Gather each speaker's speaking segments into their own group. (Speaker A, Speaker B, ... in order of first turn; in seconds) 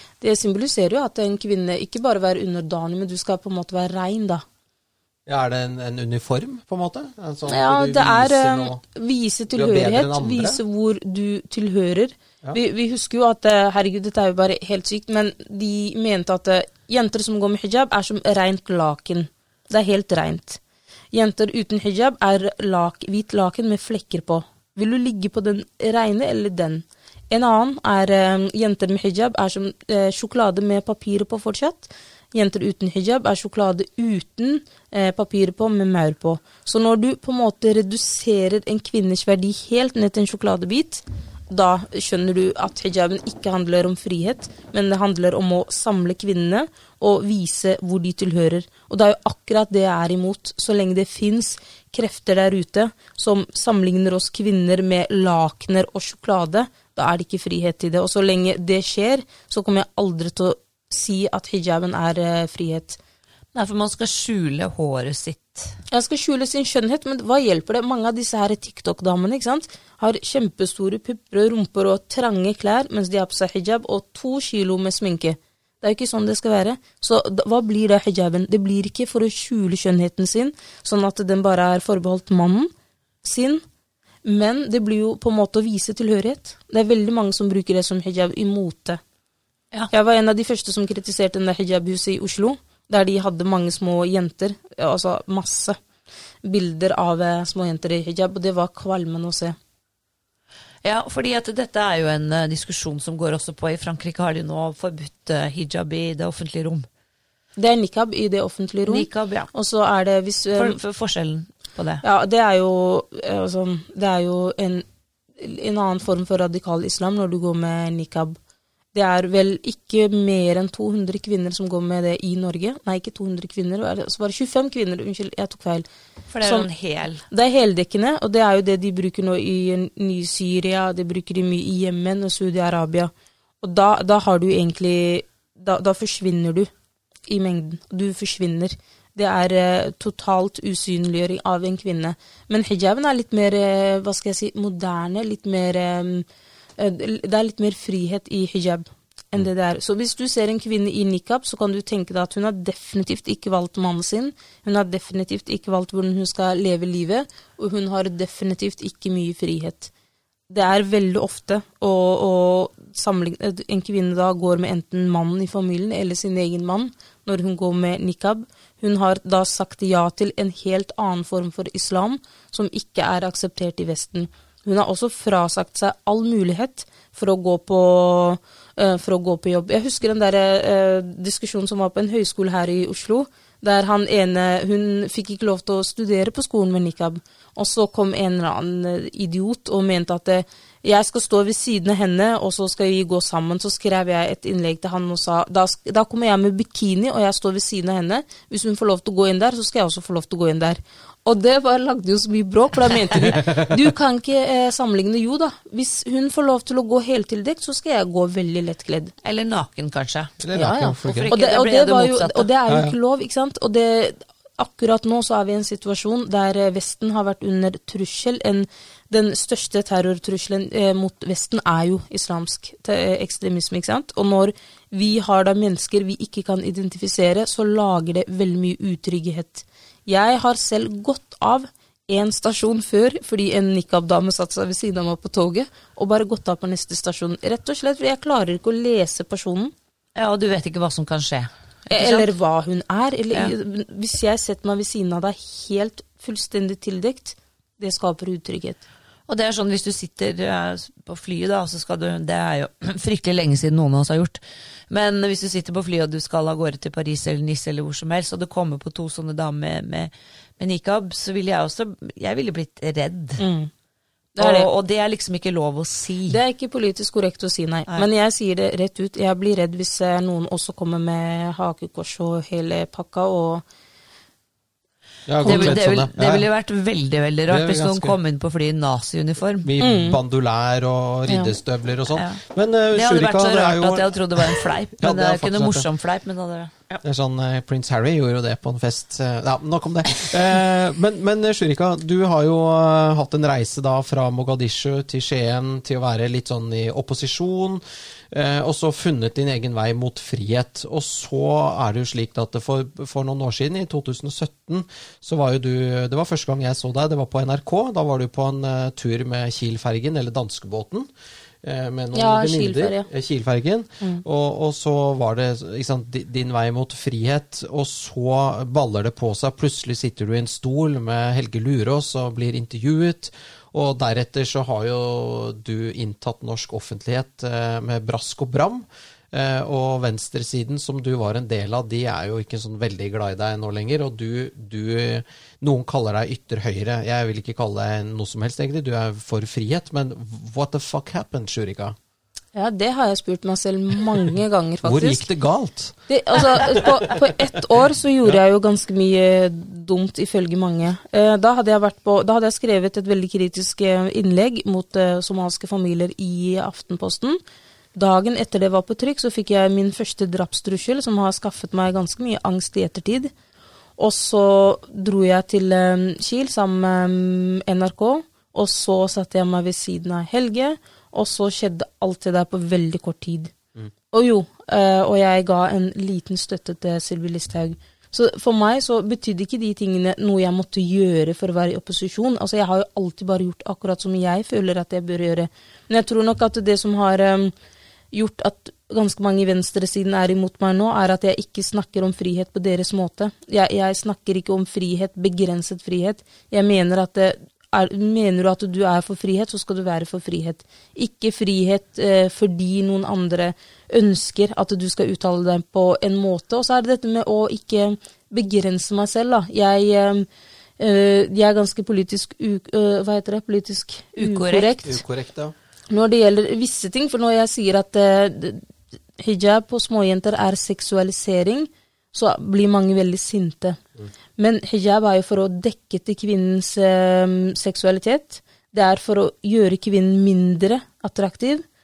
Speaker A: 0.2-4.4, 7.5-20.6, 21.1-63.0, 65.9-82.7, 83.2-83.6, 84.2-89.0, 89.9-95.8, 96.4-99.5, 107.6-110.8, 112.0-114.8, 115.4-118.4, 118.9-125.9, 126.4-126.7, 127.3-136.7, 137.3-146.2, 146.8-159.9, 160.5-209.1, 210.5-239.7, 241.9-248.8, 263.4-263.7, 264.4-264.7, 266.3-273.6, 275.4-275.7, 279.8-280.2, 281.3-281.5, 312.1-313.1, 342.5-345.3, 346.1-357.4, 357.9-363.3, 364.0-373.5, 374.1-387.5, 388.1-410.3, 410.8-415.0, 415.9-423.8, 424.4-431.6
Speaker B: 5.3-8.8, 9.5-10.6, 203.2-203.8, 210.4-211.3, 212.7-212.9, 275.3-276.5, 277.5-278.1, 279.6-285.9, 287.0-311.1, 311.6-341.9, 344.8-347.2, 414.8-415.5
Speaker C: 63.5-65.8, 100.8-106.9, 108.8-109.5, 110.5-112.0, 126.3-127.2, 209.2-212.5, 240.2-242.3, 249.3-263.4, 264.4-266.4, 275.4-279.7, 282.1-282.4, 282.9-287.0, 414.2-414.8